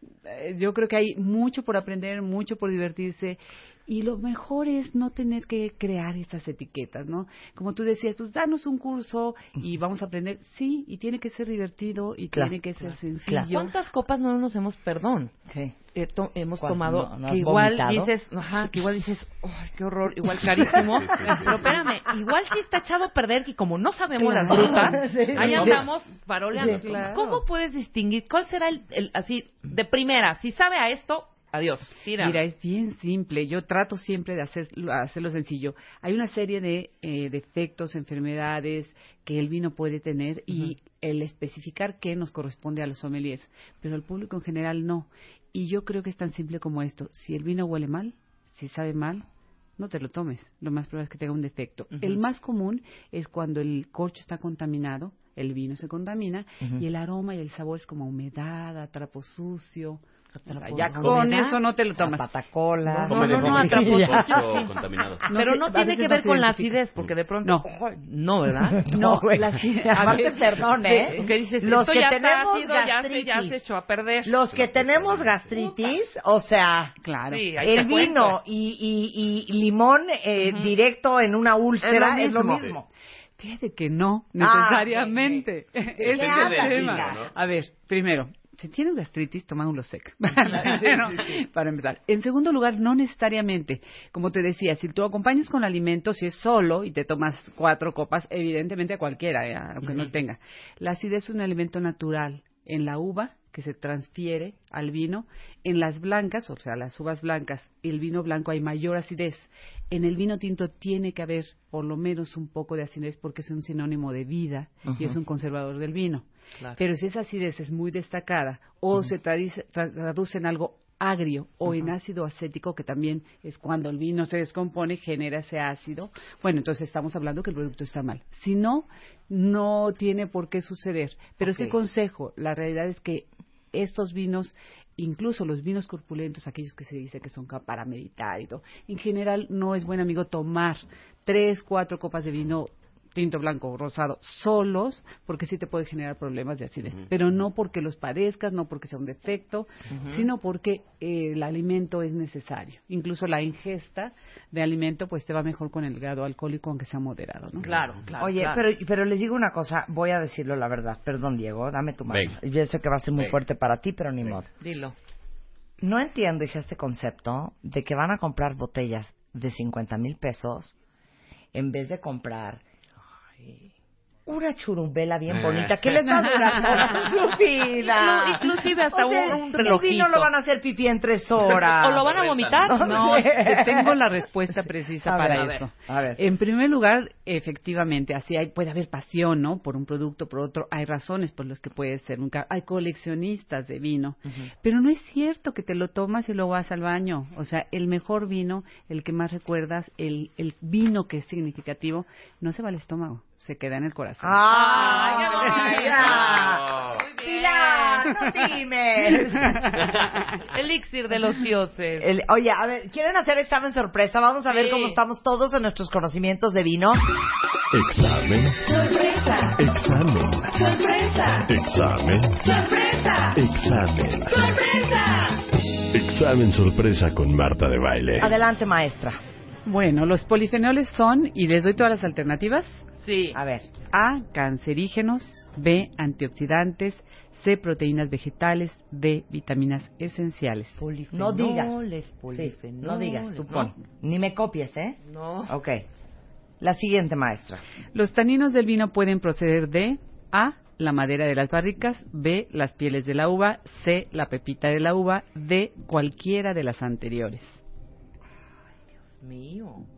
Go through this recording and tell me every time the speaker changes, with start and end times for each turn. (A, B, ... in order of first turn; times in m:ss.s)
0:00.2-0:13.7 A
0:13.5-0:15.3 B
0:15.5-0:15.8 C
0:15.9-0:32.4 B
0:16.6-0:18.1 C
0:20.5-0:21.7 C
0:20.8-0:21.5 D
0:24.2-0:25.8 A
0:24.4-0:25.8 C
0:26.5-0:27.4 A
0:26.5-0:26.8 C
0:32.2-0:49.2 A
0:49.8-1:02.2 A
0:51.9-0:52.2 B
1:00.4-1:01.6 B
1:00.7-1:04.6 C
1:02.9-1:03.4 A
1:03.0-1:04.7 B
1:03.1-1:05.2 D
1:05.3-1:06.8 A
1:05.3-1:08.9 B
1:08.6-1:13.6 C
1:08.8-1:11.3 A
1:10.9-1:14.4 B
1:14.2-1:17.0 C
1:14.5-1:15.5 D
1:15.5-1:16.0 B
1:17.0-1:17.6 A
1:17.3-1:18.4 B
1:17.6-1:22.8 C
1:20.4-1:20.7 B
1:21.8-1:22.7 A
1:23.4-1:56.2 A
1:24.4-1:25.4 C
1:26.0-1:27.2 C
1:26.0-1:27.3 D
1:30.5-1:31.4 C
1:54.8-1:55.2 C
1:56.8-2:37.7 A
2:11.4-2:11.7 C
2:29.9-2:30.3 B
2:37.6-2:38.6 B
2:38.2-2:44.5 C
2:42.1-2:42.4 D
2:44.6-2:45.0 B
2:45.8-2:50.7 C
2:51.5-2:52.6 C
2:54.3-3:04.0 C
2:55.3-2:55.9 D
2:56.1-2:56.6 A
2:57.8-3:00.3 B
3:01.5-3:03.2 B
3:01.9-3:03.0 D
3:02.8-3:25.9 A
3:05.0-3:06.2 C
3:24.2-3:29.9 C
3:24.5-3:28.2 B
3:25.9-3:27.0 D
3:29.1-3:30.3 A
3:29.8-3:30.3 D
3:30.4-3:32.1 B
3:32.0-3:37.0 C
3:34.5-3:35.0 B
3:37.7-3:38.8 E
3:39.4-3:40.7 E
3:40.7-3:41.3 B
3:41.4-3:42.6 E
3:42.6-3:43.2 B
3:43.2-3:44.5 E
3:44.7-3:45.3 B
3:45.9-3:48.3 E
3:48.2-3:49.2 C
3:49.6-3:52.8 A
3:53.0-3:53.4 B
3:53.3-3:53.7 C
3:53.9-4:00.8 A
4:00.8-4:03.7 B
4:01.1-4:05.8 C
4:05.0-4:05.6 B
4:06.6-4:07.6 C
4:07.9-4:17.6 A
4:19.2-4:19.9 B